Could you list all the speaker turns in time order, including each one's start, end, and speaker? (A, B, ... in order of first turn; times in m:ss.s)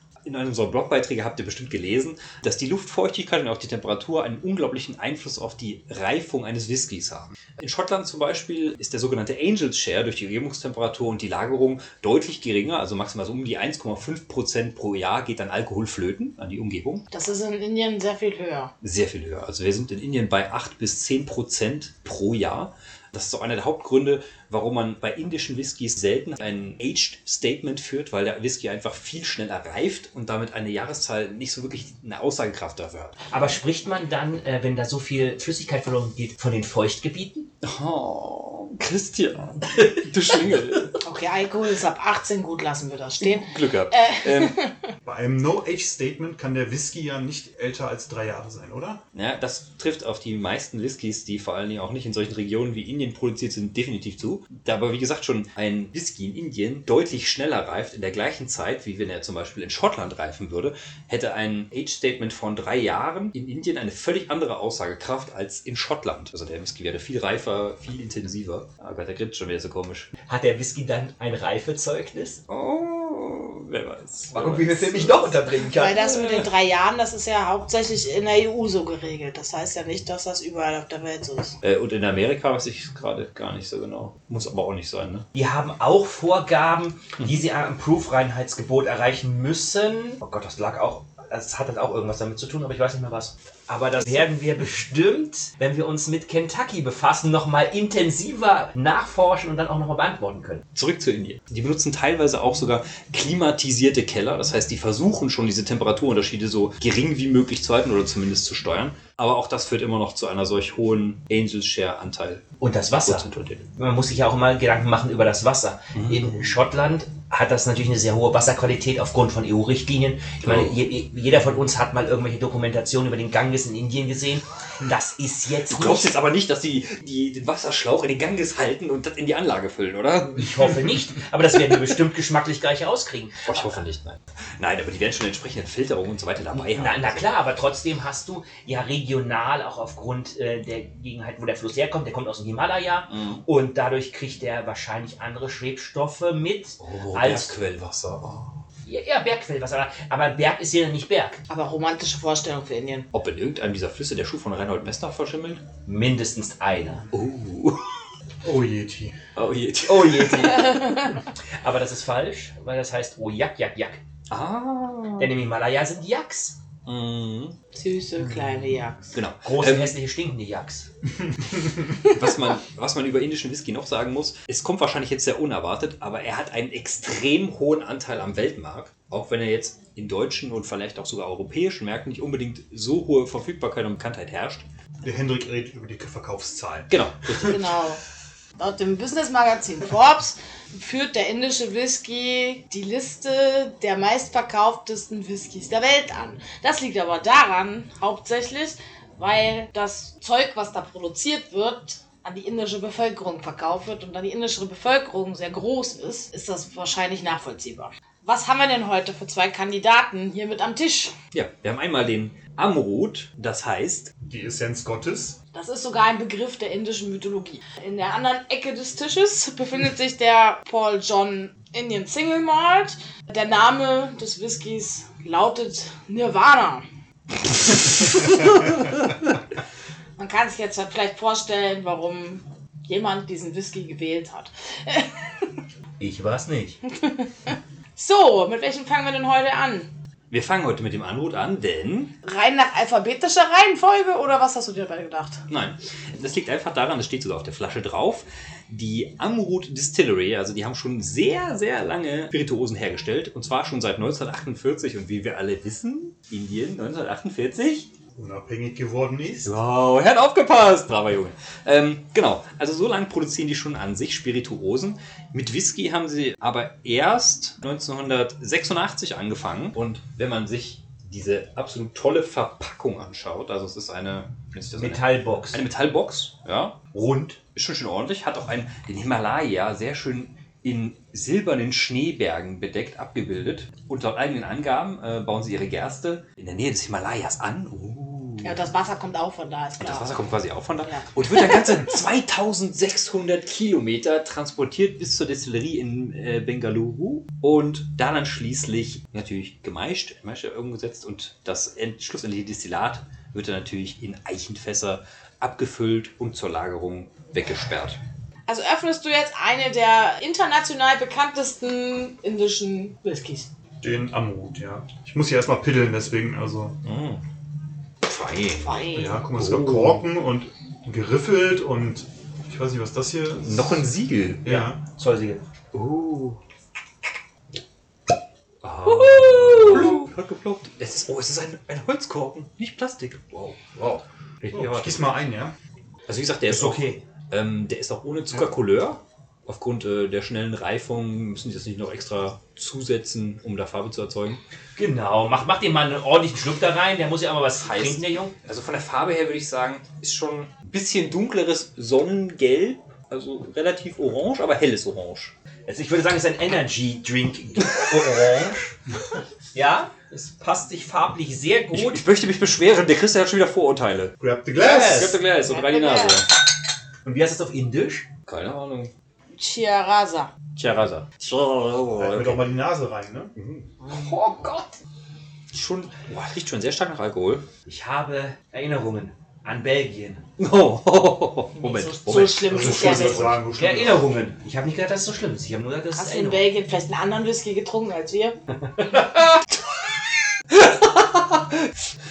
0:00.2-0:17.0 A
0:17.1-0:18.7 B
0:18.8-0:33.2 A
0:33.3-0:37.5 C
0:37.6-0:41.0 A
0:41.0-0:44.8 B
0:43.2-0:44.6 A
0:45.0-0:49.0 D
0:49.1-1:10.1 A
1:10.3-1:12.4 C
1:12.5-1:15.5 A
1:14.3-1:16.1 C
1:15.7-1:21.6 B
1:16.0-1:16.5 A
1:21.6-1:25.3 A
1:25.4-1:40.6 C
1:40.8-1:52.4 A
1:52.6-2:06.1 C
1:53.1-1:53.7 A
1:56.0-1:56.3 A
2:00.4-2:00.8 A
2:05.7-2:10.8 A
2:10.4-2:13.8 C
2:13.4-2:17.3 A
2:16.6-2:27.6 C
2:23.1-2:23.4 A
2:26.8-2:28.6 A
2:28.8-2:31.4 C
2:31.5-2:33.1 B
2:33.1-2:35.6 A
2:35.9-2:37.1 C
2:37.1-2:37.8 A
2:38.4-2:39.2 D
2:39.4-2:40.9 A
2:39.9-2:40.8 C
2:40.4-2:41.2 B
2:41.6-2:44.0 C
2:44.3-2:45.3 A
2:45.2-2:46.6 C
2:46.9-2:47.6 A
2:47.7-2:49.1 B
2:49.1-2:50.0 A
2:49.4-2:50.9 C
2:52.0-3:04.7 A
3:05.0-3:07.6 D
3:06.9-3:07.6 A
3:07.4-3:08.0 B
3:08.6-3:31.1 B
3:31.3-3:34.1 A
3:34.2-3:35.4 D
3:35.5-3:46.8 B
3:47.8-3:48.7 B
3:50.2-3:55.5 B
3:56.0-3:56.8 C
3:56.9-3:59.9 B
4:00.3-4:02.2 A
4:02.2-4:05.4 B
4:05.5-4:17.9 A
4:18.2-4:19.6 D
4:19.4-4:36.8 A
4:34.8-4:35.6 C
4:36.9-4:37.4 C
4:37.5-4:48.6 A
4:48.4-4:50.2 B
4:49.8-5:08.0 A
4:50.8-4:51.7 B
5:08.5-5:13.5 B
5:13.8-5:16.8 D
5:16.8-5:17.2 A
5:18.0-5:20.1 A
5:18.6-5:19.2 B
5:18.9-5:23.9 D
5:23.4-5:24.5 A
5:24.4-5:24.8 D
5:24.5-5:25.4 C
5:25.7-5:26.4 A
5:28.6-5:35.1 A
5:28.9-5:29.8 B
5:29.7-5:30.0 D
5:34.5-5:35.6 D
5:36.1-5:44.4 A
5:36.5-5:37.0 C
5:44.8-5:48.4 C
5:47.6-5:55.3 A
5:55.7-5:58.7 C
5:59.5-6:02.0 C
6:01.7-6:06.3 A
6:04.2-6:05.2 D
6:04.6-6:05.2 C
6:05.4-6:06.3 B
6:07.0-6:08.1 C
6:08.3-6:08.9 A
6:09.3-6:10.3 B
6:10.6-6:12.5 A
6:12.0-6:13.3 D
6:13.4-6:14.8 A
6:15.5-6:17.4 A
6:17.7-6:20.3 C
6:20.4-6:22.7 A
6:21.6-6:23.4 B
6:22.1-6:26.5 C
6:22.5-6:24.1 D
6:25.9-6:28.4 B
6:28.6-6:29.1 C
6:30.5-6:31.7 A